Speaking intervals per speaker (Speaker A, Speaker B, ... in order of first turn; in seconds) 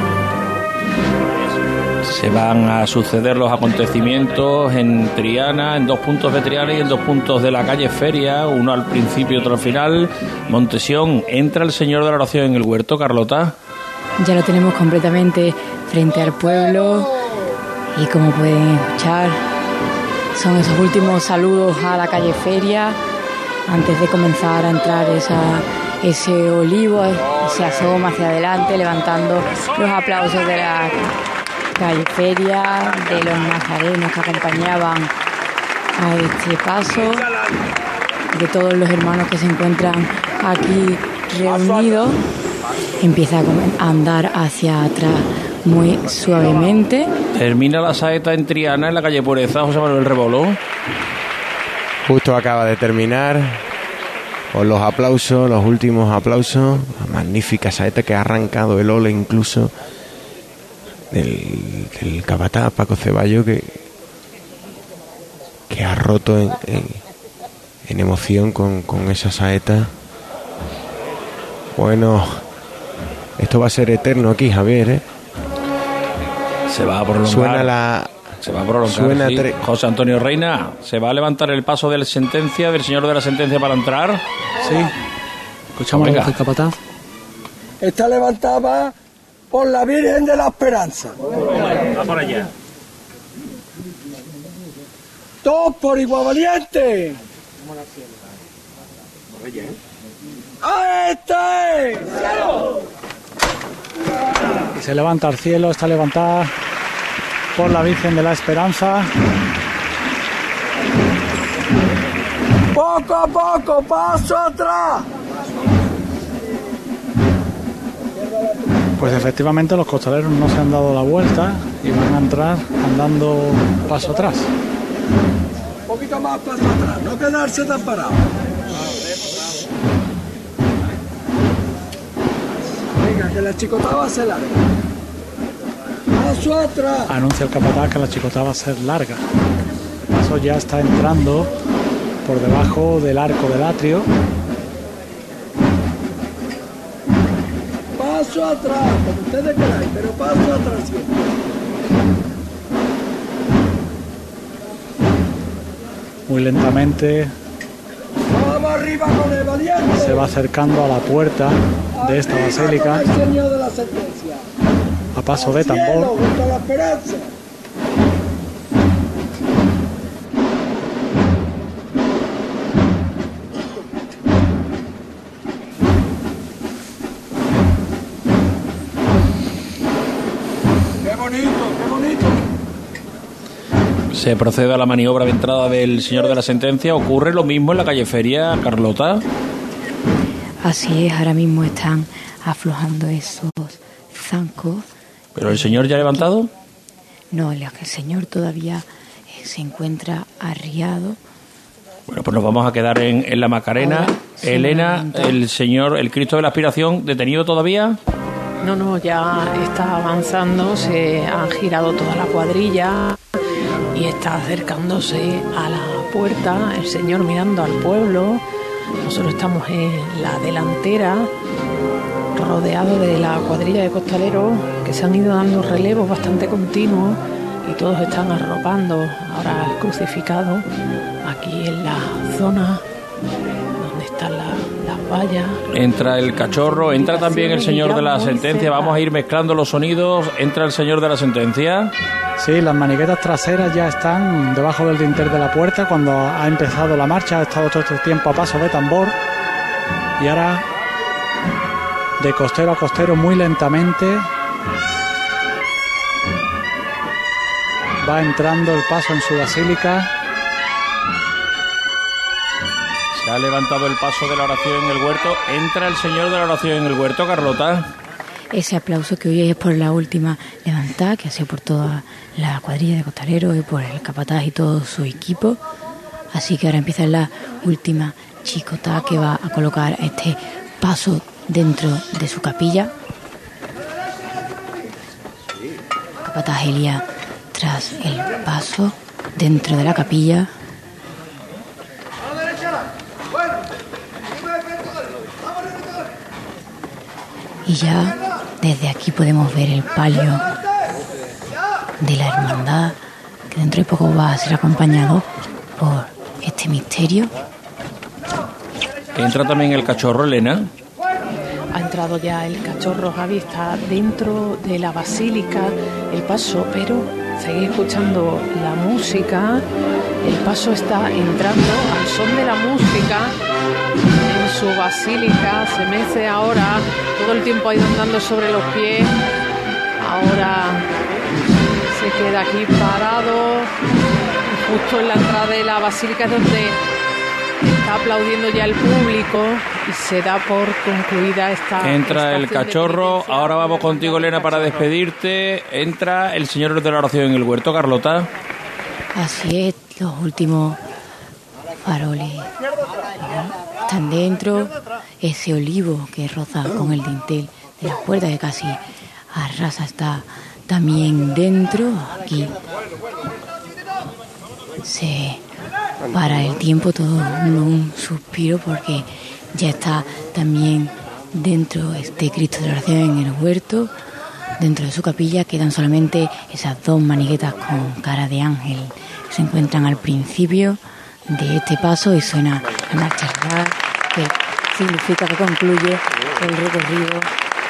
Speaker A: 2.0-13.6, 47.3-50.6, 76.7-77.7, 78.4-84.2, 85.9-86.4, 184.1-189.2, 195.3-196.5, 202.1-208.0, 235.7-241.9, 263.1-267.9, 309.1-310.7, 341.8-348.3
Speaker B: 14.2-17.2, 17.9-19.4, 20.3-23.0, 23.7-31.0, 31.8-35.1, 36.0-37.2, 38.3-42.2, 43.0-47.1, 190.6-194.8, 195.4-196.3, 197.3-201.2, 203.8-205.4, 268.5-275.6, 276.3-282.9, 286.2-290.5, 297.6-300.5, 302.0-303.0, 303.5-307.3, 349.1-350.8, 351.8-352.5, 353.2-358.8, 359.3-362.5, 364.8-365.4, 366.1-373.9, 374.6-387.3
Speaker C: 52.0-53.6, 54.5-59.7, 61.1-63.8, 65.7-67.0, 67.8-69.9, 71.7-72.4, 73.4-75.0, 77.2-78.1, 78.8-79.5
Speaker D: 84.6-84.9, 85.8-86.8, 104.7-106.5, 107.5-109.1, 119.0-124.5, 137.1-139.2, 140.1-141.5, 142.2-144.1, 156.3-157.3, 159.9-163.1, 165.2-166.1, 242.4-249.2, 250.2-250.6, 252.2-254.2, 258.0-260.1
Speaker E: 87.8-88.9, 89.5-92.4, 95.4-97.2, 100.6-102.3, 112.7-115.1, 125.9-128.2, 132.9-134.6, 136.1-137.1, 148.0-151.2, 158.3-160.4, 161.9-164.4, 165.3-167.3, 181.0-182.4
Speaker F: 208.6-213.2, 213.9-218.4, 219.0-221.3, 222.3-230.7, 231.2-232.8, 233.8-239.0, 311.7-319.6, 320.2-323.3, 324.2-329.1, 330.0-330.9, 331.9-333.7, 334.5-336.8, 337.7-344.9